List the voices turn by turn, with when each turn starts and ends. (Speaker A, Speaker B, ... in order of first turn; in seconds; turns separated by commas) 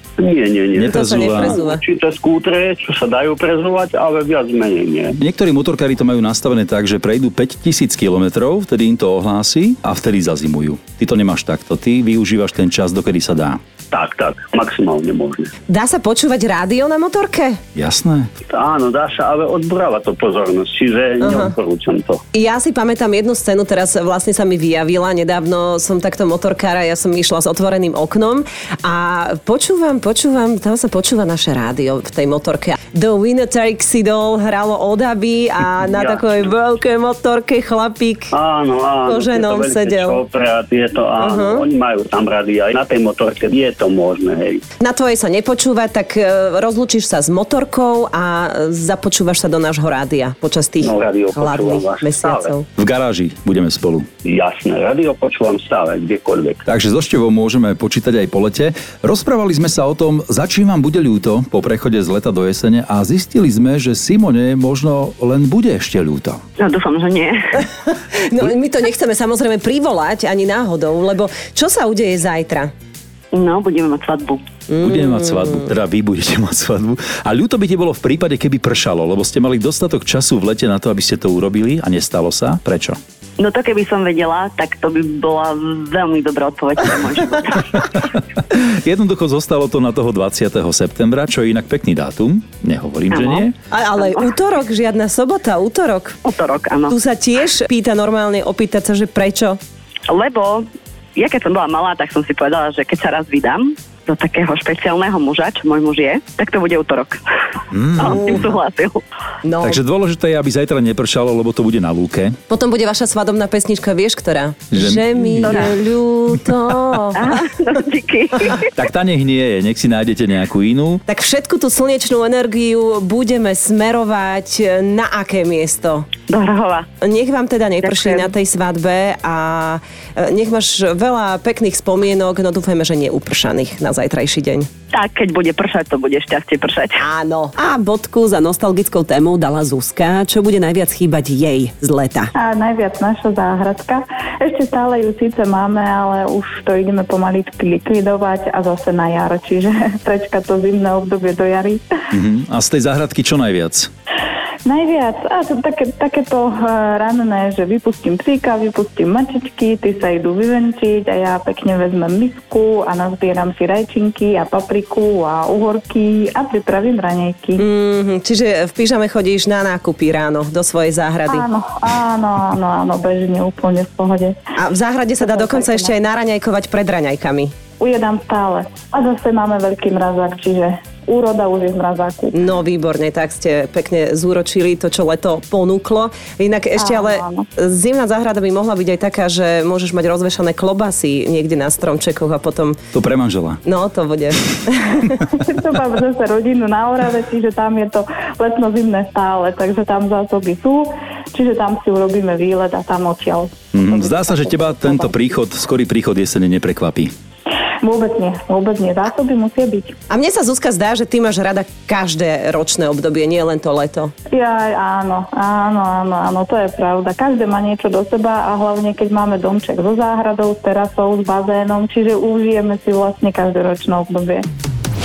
Speaker A: 0.2-5.2, Speaker B: 0.8-1.6, Speaker C: 0.8-1.8, Speaker B: 5.2-13.6, Speaker A: 13.9-15.5, Speaker C: 15.7-17.6, Speaker B: 17.8-18.3, Speaker A: 18.5-22.2, Speaker C: 21.2-21.5, Speaker C: 22.3-38.3, Speaker A: 35.9-36.5, Speaker A: 38.3-44.6, Speaker C: 39.0-40.2, Speaker C: 41.2-41.6, Speaker C: 44.8-52.6, Speaker A: 50.8-52.5, Speaker B: 52.8-54.1, Speaker A: 54.2-56.6, Speaker B: 56.7-66.4, Speaker D: 66.6-67.4, Speaker C: 67.9-72.7, Speaker D: 73.3-74.4, Speaker C: 74.7-75.5, Speaker B: 74.8-83.0, Speaker D: 83.4-87.8, Speaker B: 88.5-93.6, Speaker D: 93.1-93.5, Speaker C: 93.7-96.2, Speaker D: 96.3-96.9, Speaker C: 96.9-99.6, Speaker D: 100.1-107.2, Speaker B: 107.7-108.4, Speaker D: 108.0-109.0, Speaker C: 109.4-109.8, Speaker B: 109.6-112.4, Speaker C: 112.5-117.3, Speaker B: 114.7-115.8, Speaker D: 115.4-115.7, Speaker D: 117.2-118.7, Speaker B: 118.8-121.0, Speaker C: 121.1-126.1, Speaker D: 126.3-126.9, Speaker C: 127.0-134.7, Speaker D: 127.8-128.3, Speaker D: 134.9-137.0, Speaker C: 137.0-142.3, Speaker E: 142.4-151.9, Speaker B: 152.1-153.9, Speaker E: 154.7-167.6, Speaker C: 167.6-171.5, Speaker E: 171.3-174.4, Speaker C: 174.6-177.5, Speaker E: 175.2-175.9, Speaker E: 177.8-182.3, Speaker C: 182.3-192.8, Speaker E: 186.8-187.4, Speaker B: 192.9-193.6, Speaker C: 193.7-195.2, Speaker E: 195.4-205.1, Speaker B: 203.7-207.1, Speaker E: 207.8-209.9, Speaker C: 210.1-214.1, Speaker E: 214.3-224.4